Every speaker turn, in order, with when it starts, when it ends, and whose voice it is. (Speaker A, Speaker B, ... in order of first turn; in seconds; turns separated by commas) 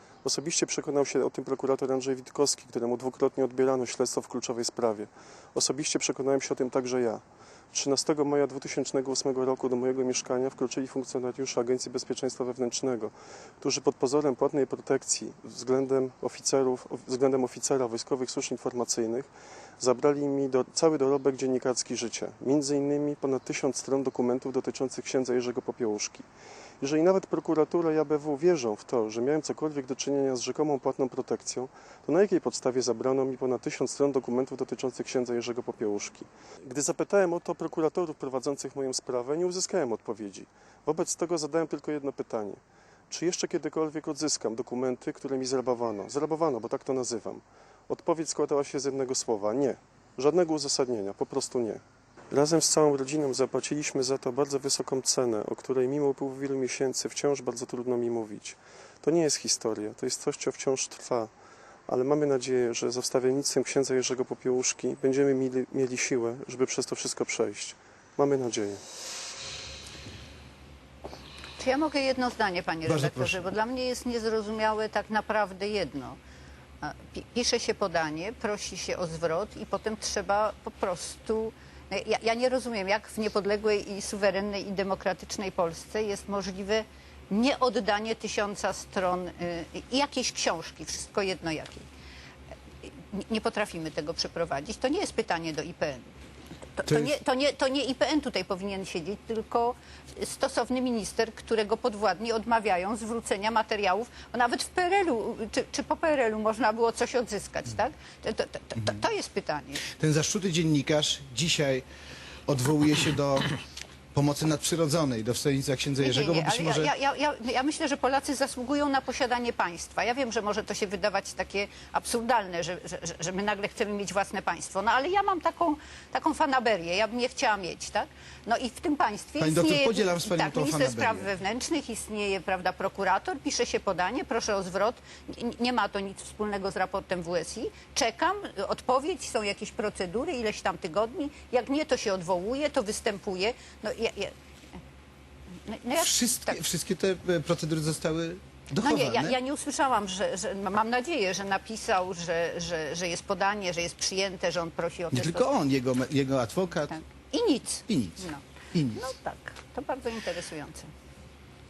Speaker A: 0.2-26.2, Speaker A: 26.8-61.3, Speaker A: 61.9-68.8, Speaker B: 71.6-76.2, Speaker C: 72.9-73.4, Speaker B: 76.8-91.9, Speaker B: 92.9-96.1, Speaker B: 96.8-109.9, Speaker C: 96.9-97.1, Speaker C: 109.9-111.8, Speaker C: 112.5-113.5, Speaker C: 114.1-116.9, Speaker B: 116.0-144.3, Speaker C: 129.4-131.3, Speaker B: 145.7-146.6, Speaker C: 146.0-149.4, Speaker B: 148.8-155.6, Speaker C: 155.1-157.0, Speaker B: 156.9-160.9, Speaker C: 157.9-159.0